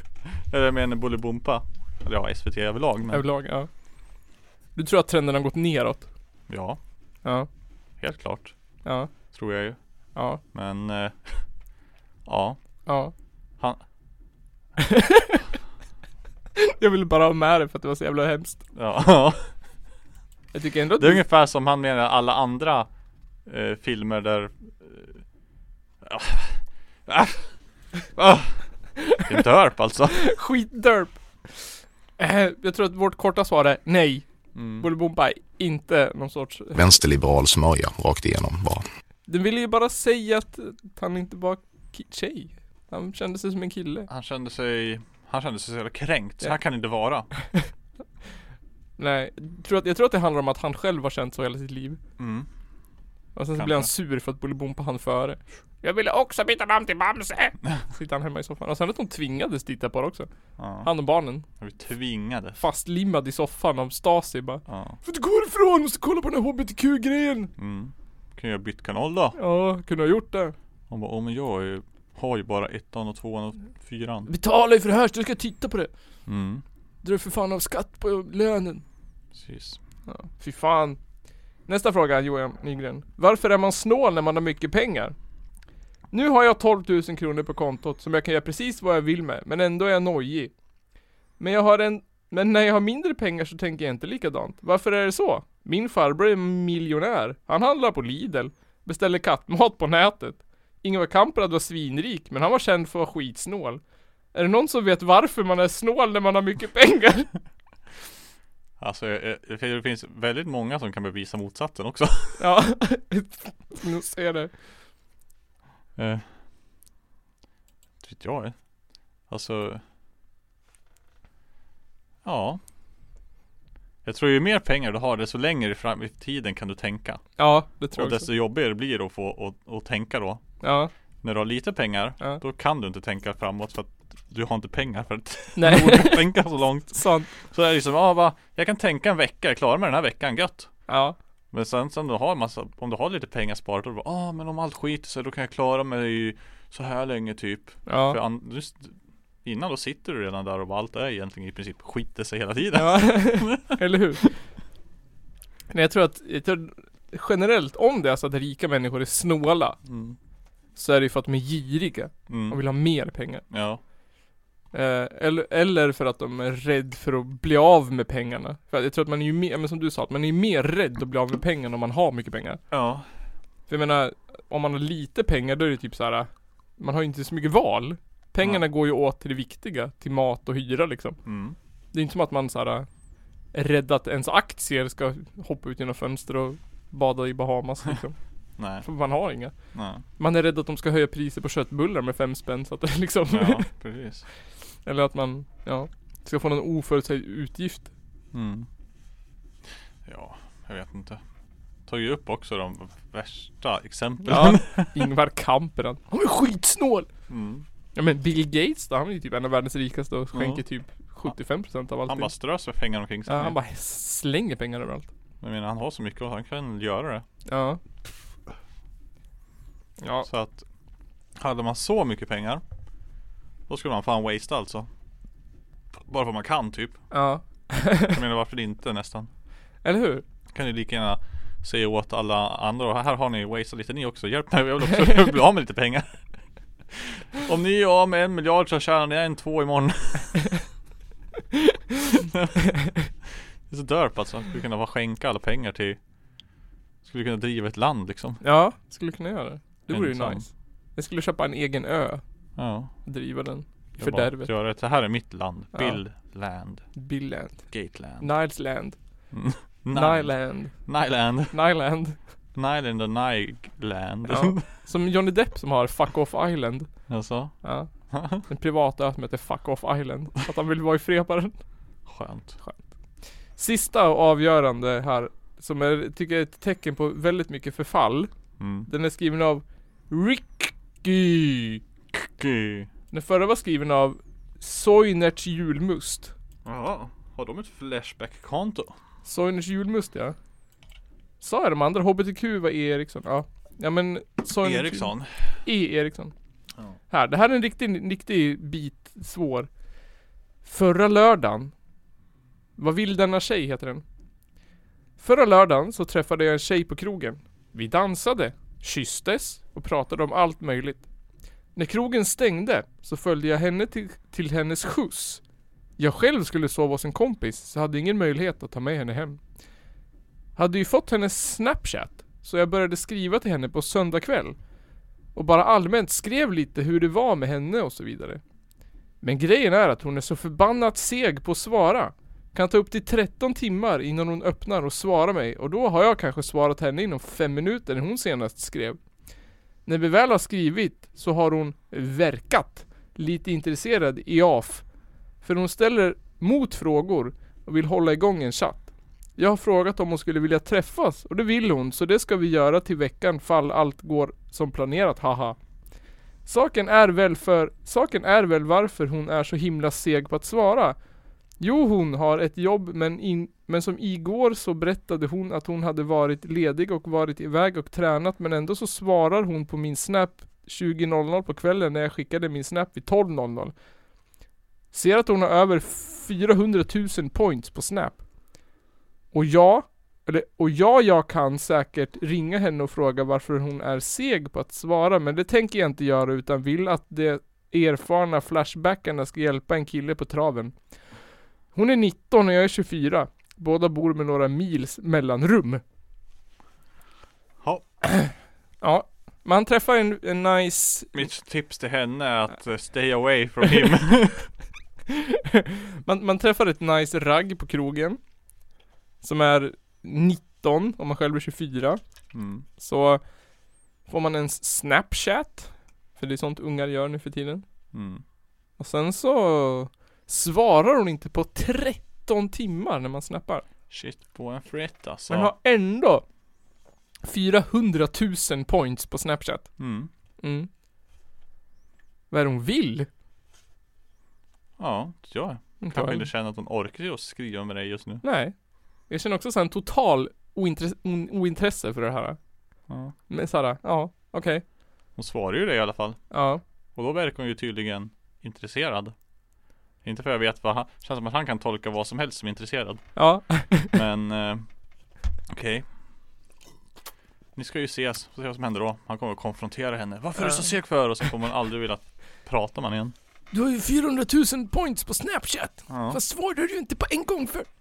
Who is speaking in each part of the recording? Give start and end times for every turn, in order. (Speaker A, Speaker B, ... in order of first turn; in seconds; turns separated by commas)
Speaker A: 0.5-3.2, Speaker B: 3.1-3.7, Speaker B: 4.8-6.1, Speaker A: 6.5-6.8, Speaker A: 8.0-8.5, Speaker B: 8.8-9.1, Speaker A: 9.3-9.8, Speaker A: 10.5-11.4, Speaker A: 12.3-12.6, Speaker B: 12.9-13.1, Speaker B: 14.8-15.4, Speaker B: 16.6-18.6, Speaker A: 18.8-19.5, Speaker B: 20.5-21.2, Speaker A: 21.0-22.9, Speaker A: 23.5-25.2, Speaker A: 26.0-27.5, Speaker A: 28.2-28.6, Speaker A: 29.2-30.3, Speaker B: 30.2-31.7, Speaker B: 32.2-34.3, Speaker A: 34.5-34.9, Speaker B: 34.8-36.8, Speaker C: 36.8-38.9, Speaker B: 39.3-44.1, Speaker A: 44.1-47.3, Speaker B: 49.0-52.0, Speaker A: 52.2-52.5, Speaker B: 53.4-60.3, Speaker A: 53.6-53.9, Speaker A: 60.6-60.9, Speaker B: 60.8-61.4, Speaker A: 61.6-62.6, Speaker B: 62.6-67.5, Speaker A: 64.7-65.0, Speaker A: 67.6-69.4, Speaker B: 69.4-70.5, Speaker A: 70.9-74.3, Speaker B: 74.3-75.9, Speaker A: 76.3-76.6, Speaker B: 77.0-78.8, Speaker A: 79.3-79.8, Speaker B: 80.1-81.0, Speaker B: 81.7-85.2, Speaker B: 86.1-90.5, Speaker B: 91.4-103.8, Speaker B: 104.3-107.3, Speaker A: 108.8-112.4, Speaker B: 112.4-114.5, Speaker A: 116.0-116.3, Speaker A: 118.0-118.6, Speaker A: 119.3-119.8, Speaker A: 122.2-122.6, Speaker A: 124.0-127.3, Speaker B: 127.4-128.3, Speaker A: 127.9-130.4, Speaker B: 130.6-130.9, Speaker A: 131.2-140.8, Speaker B: 135.6-136.3, Speaker B: 136.9-137.3, Speaker B: 140.9-141.2, Speaker A: 141.5-154.3, Speaker B: 147.9-148.2, Speaker B: 152.8-154.2, Speaker B: 155.7-159.8, Speaker A: 159.9-160.2, Speaker B: 160.8-163.4, Speaker A: 162.3-162.6, Speaker A: 163.5-163.8, Speaker B: 164.7-172.6, Speaker A: 172.7-173.1, Speaker B: 173.7-181.2, Speaker A: 181.2-181.6, Speaker B: 181.9-182.9, Speaker B: 183.5-188.2, Speaker A: 188.6-188.9, Speaker B: 188.8-189.6, Speaker A: 189.7-190.0, Speaker B: 190.2-193.7, Speaker A: 193.3-194.3, Speaker B: 194.8-197.9, Speaker A: 198.3-198.7, Speaker A: 200.1-201.2, Speaker A: 201.9-205.1, Speaker B: 204.3-207.1, Speaker A: 207.3-207.7, Speaker B: 208.0-212.3, Speaker A: 210.3-210.6, Speaker A: 212.1-213.6, Speaker B: 213.3-215.1, Speaker A: 215.4-217.2, Speaker B: 217.5-217.8, Speaker B: 220.0-220.3, Speaker A: 220.2-220.6, Speaker A: 221.4-222.6, Speaker A: 223.7-224.9, Speaker A: 226.1-227.1, Speaker B: 227.1-228.2, Speaker A: 228.0-229.3, Speaker B: 229.8-230.2, Speaker A: 230.5-236.3, Speaker A: 236.9-240.6, Speaker A: 243.7-246.0, Speaker A: 247.0-248.4, Speaker B: 248.4-252.2, Speaker A: 249.9-250.5, Speaker A: 252.6-252.9, Speaker B: 253.1-254.5, Speaker A: 254.0-256.9, Speaker B: 255.7-256.0, Speaker B: 257.0-257.7, Speaker A: 257.7-258.3, Speaker B: 258.2-259.0, Speaker A: 259.3-261.6, Speaker B: 259.9-260.8, Speaker B: 261.5-262.2, Speaker A: 262.6-264.7, Speaker B: 264.3-266.9, Speaker A: 267.1-267.6, Speaker B: 267.6-271.6, Speaker A: 268.1-268.4, Speaker A: 272.1-272.6, Speaker B: 273.6-278.3, Speaker A: 278.6-278.9, Speaker B: 278.9-281.8, Speaker A: 282.1-282.9, Speaker B: 283.1-286.3, Speaker A: 286.6-288.9, Speaker B: 289.2-290.4, Speaker B: 291.4-295.1, Speaker A: 294.6-295.6, Speaker B: 295.7-296.3, Speaker B: 297.1-299.7, Speaker B: 300.6-301.7, Speaker B: 302.8-304.0, Speaker B: 305.2-311.1, Speaker B: 311.8-315.4, Speaker B: 316.0-319.4, Speaker B: 320.6-324.6, Speaker B: 325.4-328.4, Speaker B: 329.2-339.0, Speaker B: 339.9-344.8, Speaker B: 345.4-355.6, Speaker B: 356.5-361.0, Speaker B: 361.6-373.7, Speaker B: 374.9-378.2, Speaker B: 379.3-390.7, Speaker B: 391.7-395.8, Speaker B: 398.8-401.3, Speaker A: 401.1-404.5, Speaker B: 405.1-408.2, Speaker B: 409.2-412.0, Speaker A: 412.3-412.6, Speaker B: 412.8-413.2, Speaker B: 414.1-417.6, Speaker A: 417.9-418.2, Speaker B: 418.8-423.6, Speaker A: 423.9-425.5, Speaker B: 425.3-426.2, Speaker B: 427.2-429.8, Speaker A: 429.8-430.1, Speaker B: 430.4-430.7, Speaker B: 432.3-433.1, Speaker A: 434.8-438.2, Speaker B: 435.8-436.3, Speaker B: 438.2-438.5, Speaker B: 439.1-442.4, Speaker A: 442.9-443.1, Speaker B: 443.3-444.6, Speaker A: 445.2-446.2, Speaker B: 446.3-446.6, Speaker A: 447.0-449.1, Speaker A: 450.0-454.7, Speaker B: 453.2-453.9, Speaker A: 455.5-455.9, Speaker A: 457.6-463.1, Speaker B: 463.5-467.7, Speaker A: 465.9-466.2